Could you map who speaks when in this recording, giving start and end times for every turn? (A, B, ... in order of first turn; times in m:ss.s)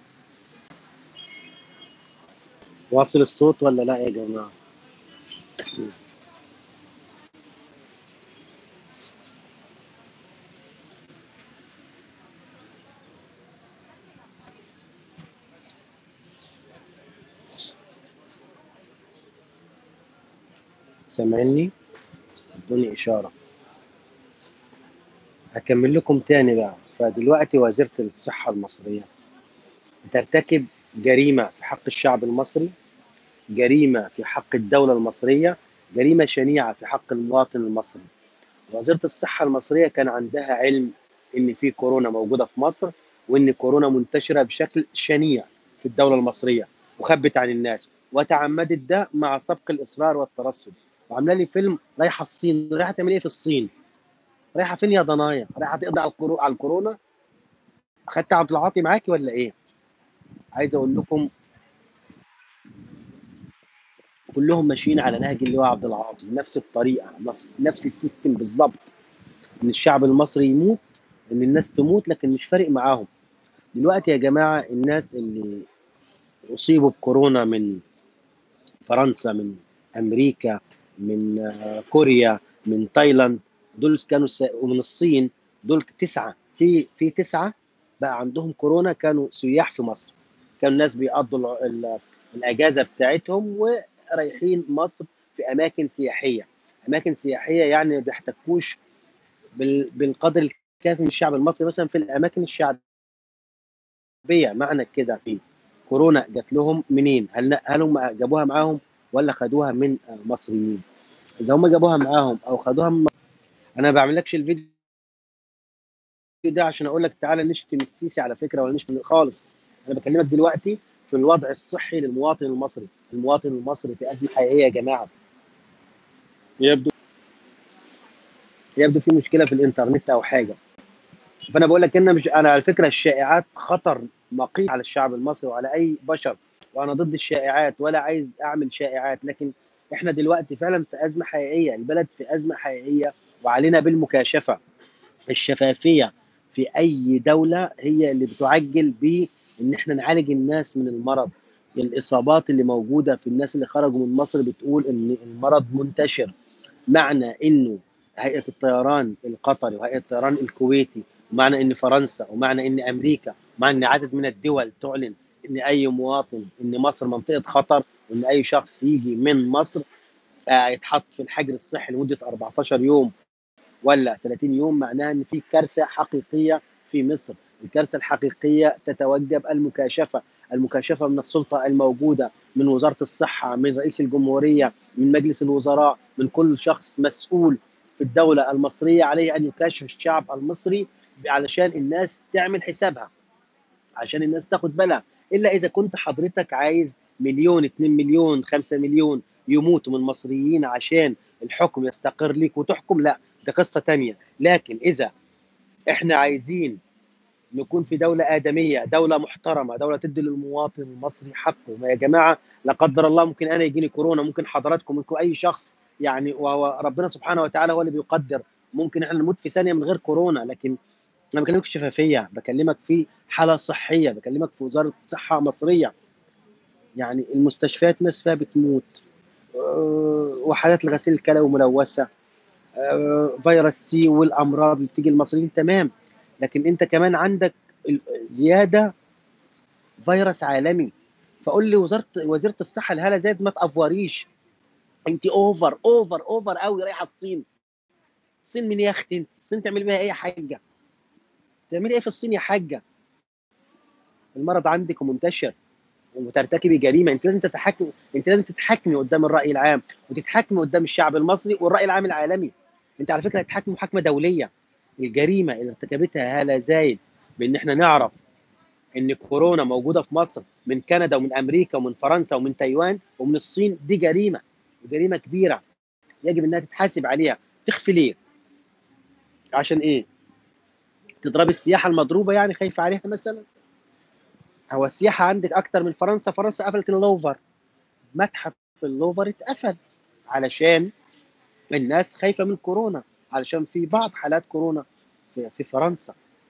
0:02.9-0:04.5 A
0:21.1-0:21.7 A
0:22.6-0:23.3 A
0:25.6-0:29.1 A
0:30.1-0:32.7 A
0:33.6-0:38.1 A
0:38.7-0:53.7 A
0:54.6-0:57.0 A
0:58.1-0:59.5 A
1:00.6-1:01.3 A
1:04.3-1:08.8 A
1:09.6-1:10.8 A
1:11.3-1:13.1 A
1:13.8-1:15.6 A
1:16.5-1:17.8 A
1:18.9-1:38.8 A
1:39.6-1:42.8 A
1:44.3-1:50.8 A
1:51.4-1:53.1 A
1:53.8-1:54.7 A
1:56.4-2:05.1 A
2:06.6-2:06.9 A
2:08.8-2:10.6 A
2:11.5-2:24.6 A
2:25.3-2:36.3 A
2:36.9-2:49.8 A
2:50.5-2:53.1 A
2:53.8-3:13.1 A
3:14.0-3:25.1 A
3:25.9-3:26.8 A
3:27.6-3:40.8 A
3:41.4-3:45.9 A
3:47.0-3:48.9 A
3:49.6-3:52.1 A
3:52.8-3:55.9 A
3:56.4-3:58.9 A
4:00.0-4:00.9 A
4:01.4-4:04.3 A
4:05.1-4:07.4 A
4:08.4-4:10.6 A
4:11.7-4:12.8 A
4:14.4-4:15.5 A
4:16.2-4:24.5 A
4:25.0-4:28.2 A
4:29.0-4:35.6 A
4:36.2-4:38.2 A
4:39.6-4:40.0 A
4:41.2-4:43.4 A
4:44.7-4:47.4 A
4:48.2-4:49.8 A
4:50.3-4:50.9 A
4:51.7-4:56.2 A